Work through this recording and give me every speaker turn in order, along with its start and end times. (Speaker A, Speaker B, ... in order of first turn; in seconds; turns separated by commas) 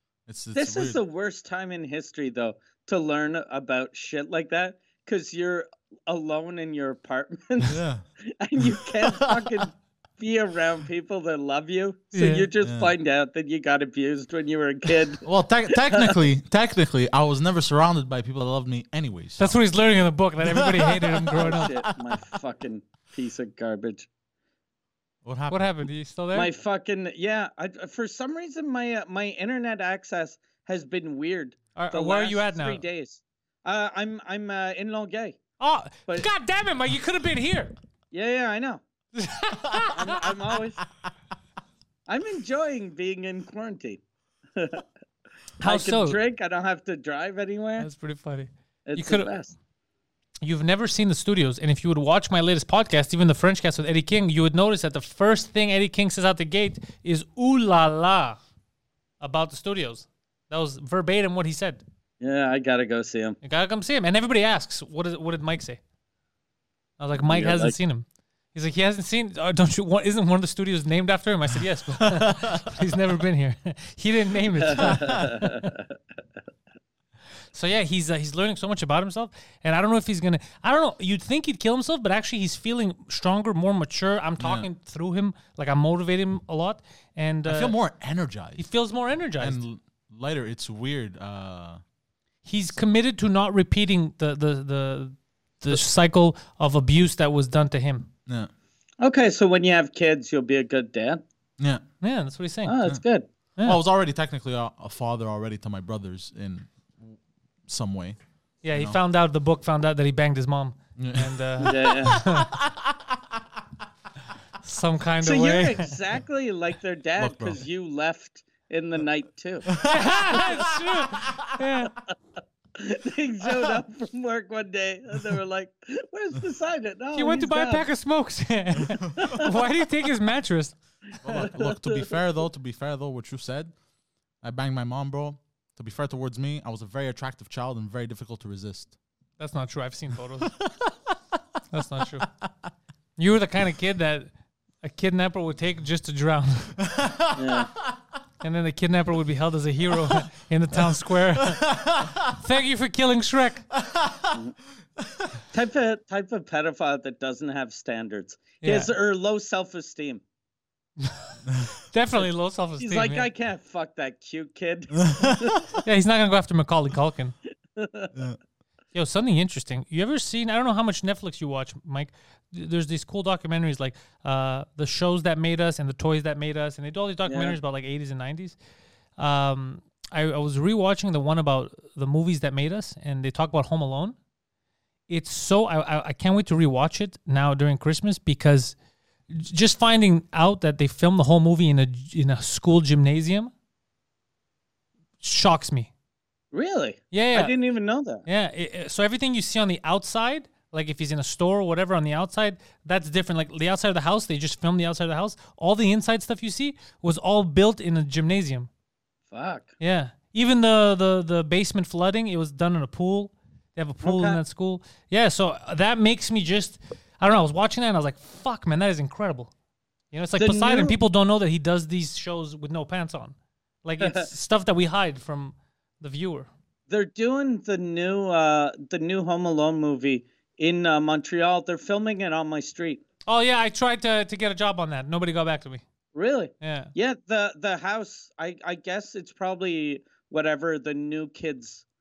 Speaker A: 0.3-1.0, Speaker B: 0.6-15.2, Speaker A: 7.6-8.1, Speaker A: 8.6-9.7, Speaker C: 12.1-12.5, Speaker A: 12.6-12.9, Speaker A: 15.2-19.6, Speaker B: 15.8-16.2, Speaker C: 19.4-21.7, Speaker A: 20.4-22.2, Speaker B: 21.3-24.1, Speaker A: 25.2-25.7, Speaker C: 25.5-26.5, Speaker B: 26.3-35.4, Speaker C: 31.8-32.8, Speaker C: 35.6-37.7, Speaker B: 38.1-38.8, Speaker C: 39.1-40.2, Speaker B: 39.9-40.8, Speaker B: 42.1-44.0, Speaker B: 44.6-44.9, Speaker C: 45.6-46.2, Speaker B: 45.6-47.9, Speaker C: 47.8-49.3, Speaker B: 48.9-49.5, Speaker C: 50.4-58.4, Speaker C: 59.2-61.8, Speaker B: 62.2-63.4, Speaker C: 63.4-65.8, Speaker C: 67.0-75.7, Speaker B: 67.2-67.7, Speaker A: 72.0-72.7, Speaker B: 74.7-75.8, Speaker A: 74.8-75.5, Speaker C: 77.5-87.8, Speaker A: 84.4-84.7, Speaker A: 87.5-88.7, Speaker C: 88.6-89.6, Speaker A: 89.4-91.8, Speaker C: 92.5-98.1, Speaker B: 99.0-101.2, Speaker C: 102.0-102.8, Speaker B: 102.7-103.3, Speaker A: 103.6-108.2, Speaker C: 108.6-112.5, Speaker A: 111.0-113.2, Speaker B: 111.6-112.2, Speaker C: 114.6-115.9, Speaker B: 115.2-119.9, Speaker A: 117.2-117.6, Speaker A: 119.7-121.5, Speaker C: 119.8-122.0, Speaker B: 122.8-127.9, Speaker C: 127.1-130.8, Speaker A: 128.9-129.4, Speaker B: 129.2-129.5, Speaker A: 131.2-133.7, Speaker B: 131.3-132.2, Speaker A: 134.4-138.9, Speaker C: 139.4-140.5, Speaker A: 140.6-140.9, Speaker C: 141.7-142.3, Speaker C: 143.2-144.3, Speaker C: 144.8-146.8, Speaker A: 146.8-147.9, Speaker B: 147.4-147.7, Speaker C: 148.4-151.7, Speaker A: 151.4-152.4, Speaker C: 152.3-153.7, Speaker A: 153.7-154.4, Speaker A: 155.0-155.3, Speaker B: 155.5-160.2, Speaker C: 158.6-158.9, Speaker C: 161.0-161.3, Speaker A: 161.5-161.7, Speaker C: 161.9-163.3, Speaker B: 162.8-165.7, Speaker A: 165.0-165.8, Speaker C: 165.8-167.4, Speaker B: 167.8-168.1, Speaker C: 168.9-178.6, Speaker B: 177.3-177.6, Speaker C: 179.2-184.2, Speaker C: 185.1-188.8, Speaker C: 189.3-193.5, Speaker C: 195.2-195.9, Speaker B: 196.5-198.2, Speaker C: 197.1-197.5, Speaker C: 198.2-208.7, Speaker B: 209.3-209.7, Speaker C: 209.8-219.5, Speaker B: 214.0-214.4, Speaker C: 220.1-226.5, Speaker B: 220.4-220.9, Speaker B: 224.0-224.3, Speaker B: 226.9-233.0, Speaker C: 233.3-235.8, Speaker B: 236.2-241.8, Speaker C: 236.6-236.9